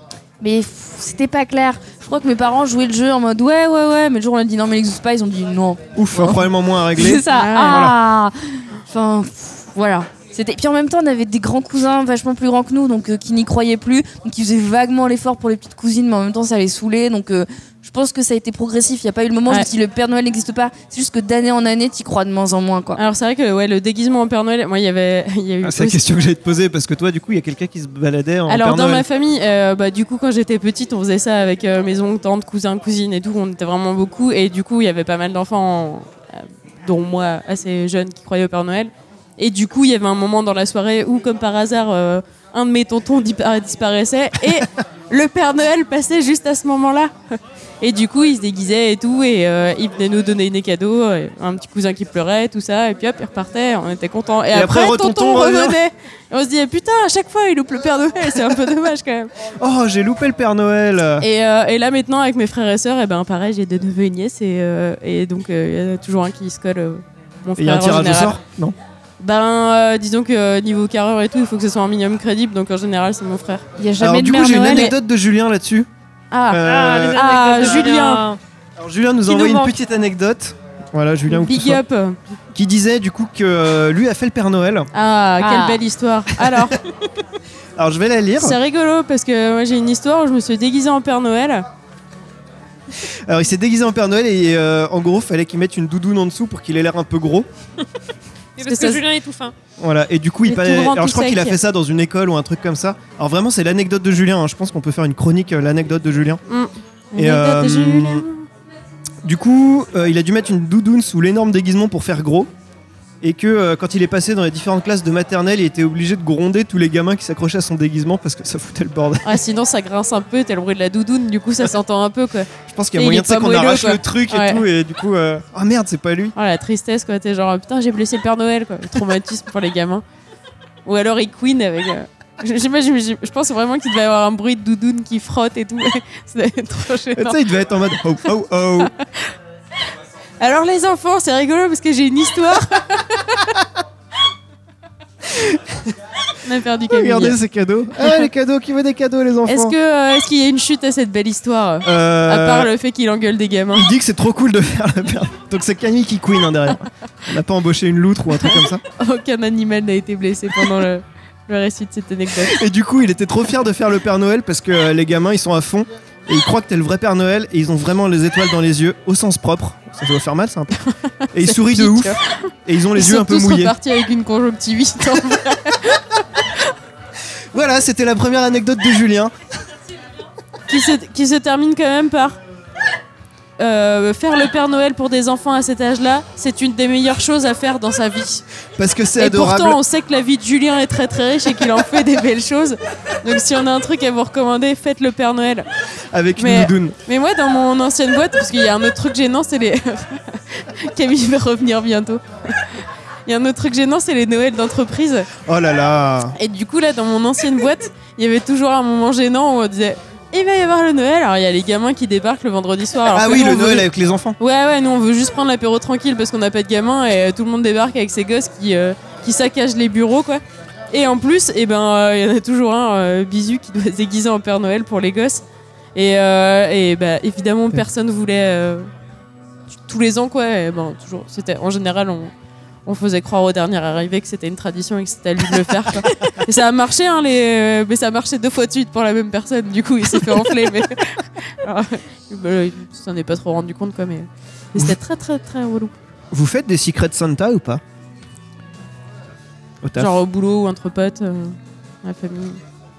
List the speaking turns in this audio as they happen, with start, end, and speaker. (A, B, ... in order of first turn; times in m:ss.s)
0:00.4-0:23.0 A
0:06.0-0:08.0 B
0:07.3-0:07.8 C
0:23.0-0:26.0 C
0:25.6-0:29.1 B
0:28.5-0:59.3 C
0:54.5-0:55.8 B
0:59.6-1:01.3 B
1:01.2-1:08.4 C
1:07.6-1:08.8 B
1:09.2-1:13.6 C
1:13.8-1:14.9 A
1:14.0-1:15.9 B
1:16.3-1:16.6 C
1:16.5-1:17.2 B
1:16.6-1:18.4 D
1:17.1-1:18.2 C
1:18.8-1:21.8 B
1:19.3-1:19.7 D
1:21.3-1:22.2 C
1:22.5-1:24.9 B
1:24.9-1:26.8 C
1:25.4-1:25.8 A
1:27.8-1:28.6 B
1:28.4-1:31.7 C
1:33.3-1:37.5 B
1:38.6-1:39.5 D
1:38.6-1:39.0 C
1:39.8-1:46.4 B
1:40.5-1:41.6 C
1:46.5-1:48.4 C
1:47.2-1:48.2 B
1:49.2-1:52.5 B
1:53.2-1:59.4 B
1:59.2-2:04.6 C
2:02.7-2:06.4 B
2:06.4-2:10.0 C
2:10.8-2:17.4 C
2:17.2-2:18.9 B
2:18.8-2:19.3 C
2:20.4-2:23.5 C
2:25.2-2:26.0 B
2:26.4-2:27.4 C
2:26.9-2:29.8 B
2:29.5-2:33.9 C
2:31.8-2:32.7 B
2:33.7-2:38.8 B
2:39.0-2:42.6 C
2:42.4-2:50.8 B
2:51.2-2:56.0 C
2:51.3-2:53.8 B
2:57.5-2:59.4 B
3:00.7-3:02.4 C
3:03.6-3:08.4 C
3:08.8-3:09.8 B
3:09.2-3:15.7 C
3:16.1-3:17.0 B
3:16.4-3:25.3 C
3:25.5-3:26.4 B
3:26.4-3:33.9 C
3:33.1-3:34.4 B
3:34.4-3:45.4 C
3:46.0-3:48.9 C
3:49.9-3:52.3 C
3:52.9-4:05.9 C
4:06.3-4:07.8 B
4:09.8-4:10.2 B
4:10.0-4:12.6 C